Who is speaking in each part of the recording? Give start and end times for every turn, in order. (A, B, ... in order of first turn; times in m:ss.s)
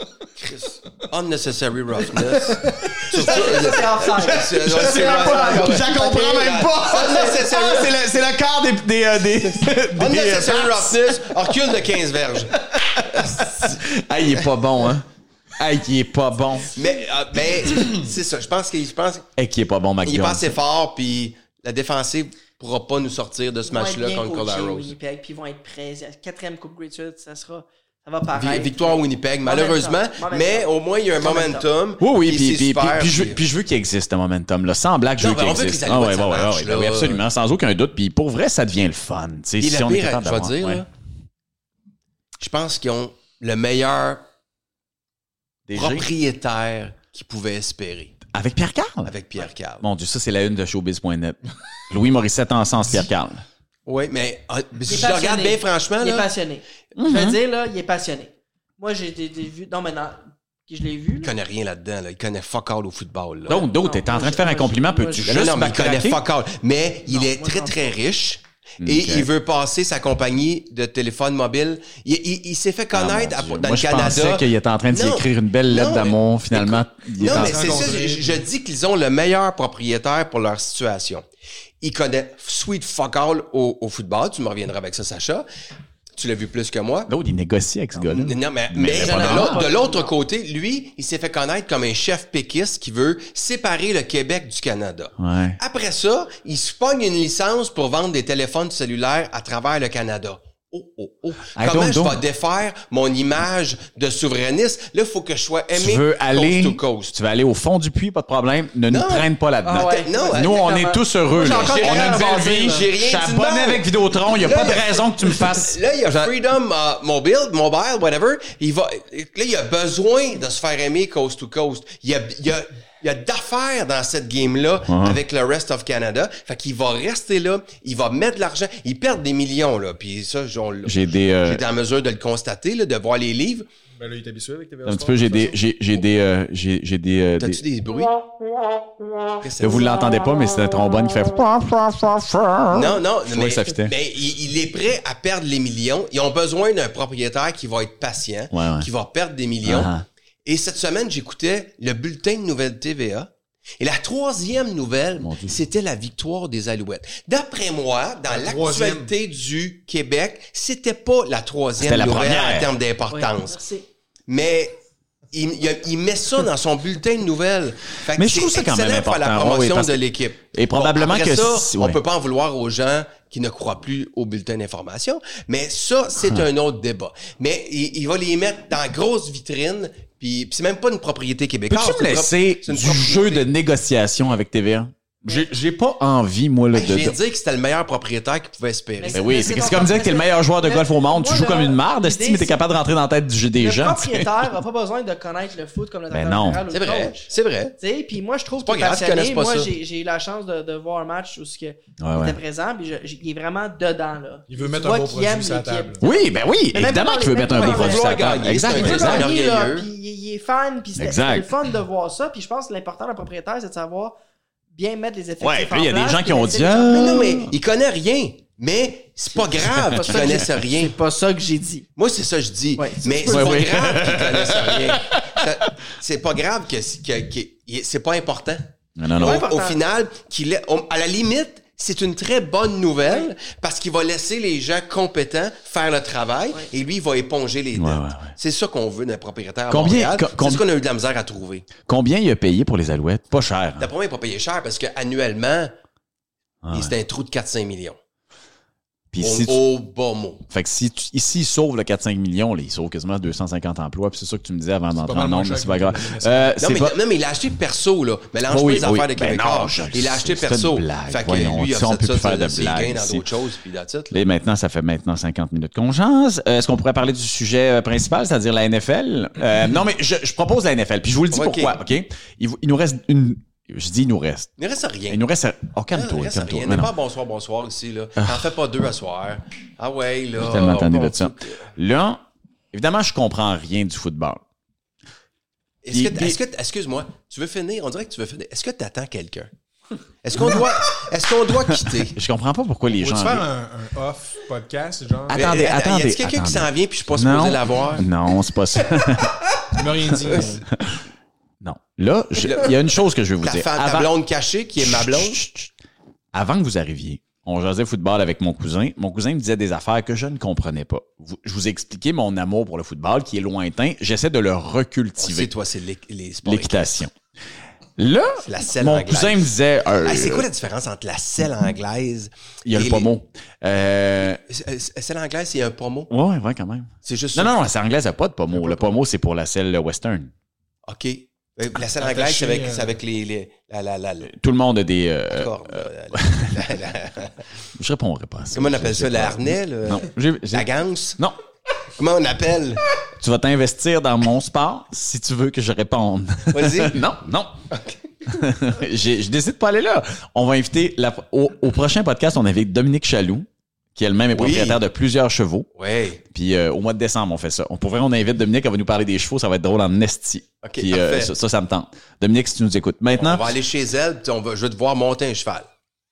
0:00.4-0:08.0 A
0:02.4-0:03.1 B
0:03.1-0:03.4 C
0:03.1-0:07.4 D
0:04.2-0:11.8 C
0:09.4-0:12.6 A
0:12.5-0:15.0 C
0:13.1-0:13.6 A
0:15.6-0:16.7 C
0:16.7-0:19.3 A
0:19.4-0:20.6 C
0:20.0-0:24.9 A
0:23.6-0:31.6 D
0:28.3-0:33.4 A
0:32.0-0:40.8 C
0:35.2-0:37.2 A
0:39.6-0:40.9 A
0:42.4-0:44.2 A
0:45.7-0:46.1 C
0:45.7-0:48.2 A
0:48.3-0:49.2 C
0:49.0-0:49.8 A
0:49.8-0:53.4 C
0:53.8-0:56.3 A
0:54.9-1:01.3 D
0:56.9-0:57.4 C
1:01.2-1:03.6 A
1:03.5-1:06.2 C
1:03.5-1:05.3 D
1:05.2-1:21.2 A
1:07.1-1:07.9 D
1:08.8-1:09.3 C
1:12.9-1:17.9 C
1:17.2-1:18.4 B
1:21.8-1:25.5 A
1:26.2-1:27.1 A
1:27.1-1:29.6 C
1:27.9-1:47.1 A
1:28.9-1:30.1 D
1:35.2-1:35.6 C
1:41.5-1:42.2 C
1:45.7-1:55.8 C
1:48.9-1:50.7 A
1:49.6-1:52.8 D
1:51.4-2:13.7 A
2:04.9-2:05.2 C
2:10.8-2:11.6 C
2:14.0-2:15.6 B
2:14.8-2:17.6 C
2:17.4-2:18.2 A
2:19.4-2:20.0 A
2:19.6-2:23.9 C
2:22.7-2:29.9 A
2:28.5-2:28.9 C
2:29.6-2:30.0 C
2:30.4-2:43.6 A
2:35.2-2:35.6 C
2:38.3-2:39.1 B
2:41.8-2:42.7 C
2:43.1-2:43.8 D
2:44.3-2:44.8 A
2:45.3-3:03.5 A
2:48.1-2:50.0 C
2:50.5-2:52.0 C
3:01.7-3:07.2 C
3:06.7-3:09.3 A
3:09.0-3:12.6 D
3:09.1-3:14.5 C
3:13.6-3:34.2 D
3:16.1-3:16.6 C
3:16.7-3:17.8 A
3:18.6-3:19.7 A
3:22.0-3:22.4 C
3:24.5-3:26.0 B
3:26.0-3:29.3 C
3:27.6-3:29.9 A
3:31.0-3:31.5 C
3:34.7-3:37.4 D
3:35.4-3:37.5 C
3:36.9-3:40.9 A
3:39.3-3:41.9 D
3:39.9-3:40.4 C
3:42.0-4:01.7 A
3:42.8-3:43.7 D
3:43.3-3:45.5 C
3:49.0-3:49.4 C
3:49.2-3:49.8 D
3:53.0-3:53.3 D
3:57.7-3:58.3 C
3:59.7-4:00.6 C
4:01.9-4:03.9 C
4:03.8-4:05.7 A
4:06.6-4:06.9 C
4:06.7-4:08.0 A
4:09.1-4:09.6 C
4:09.2-4:10.4 A
4:10.5-4:17.0 C
4:14.9-4:16.6 B
4:16.6-4:24.2 A
4:18.5-4:23.2 C
4:24.1-4:34.5 C
4:31.3-4:31.8 A
4:34.6-4:35.2 A
4:35.1-4:36.9 C
4:35.9-4:41.7 A
4:40.4-4:44.4 C
4:45.8-4:49.5 A
4:45.9-4:46.4 C
4:50.2-4:52.2 A
4:50.3-4:50.7 C
4:51.7-4:53.4 C
4:52.9-4:55.5 B
4:55.3-4:59.4 C
4:55.3-4:58.0 A
4:59.7-5:00.7 B
5:00.2-5:00.5 A
5:00.8-5:01.0 C
5:01.6-5:04.1 C
5:02.3-5:05.4 A
5:04.8-5:05.7 C
5:06.3-5:15.5 C
5:15.2-5:17.1 A
5:16.4-5:17.1 C
5:18.0-5:20.5 C
5:18.4-5:19.5 A
5:20.0-5:23.1 A
5:22.6-5:24.4 C
5:24.2-5:26.1 A
5:26.1-5:30.3 C
5:27.0-5:27.6 A
5:28.5-5:28.9 B
5:30.9-5:34.3 A
5:32.0-5:33.0 B
5:34.3-5:36.6 C
5:35.3-5:37.4 A
5:37.8-5:41.4 C
5:38.5-5:41.2 A
5:42.0-5:42.9 A
5:43.2-5:47.5 C
5:46.5-5:47.0 A
5:47.7-5:48.0 A
5:48.2-5:55.7 C
5:54.3-5:54.8 A
5:55.7-5:56.2 A
5:56.3-6:03.4 C
6:00.6-6:01.3 A
6:03.1-6:05.7 A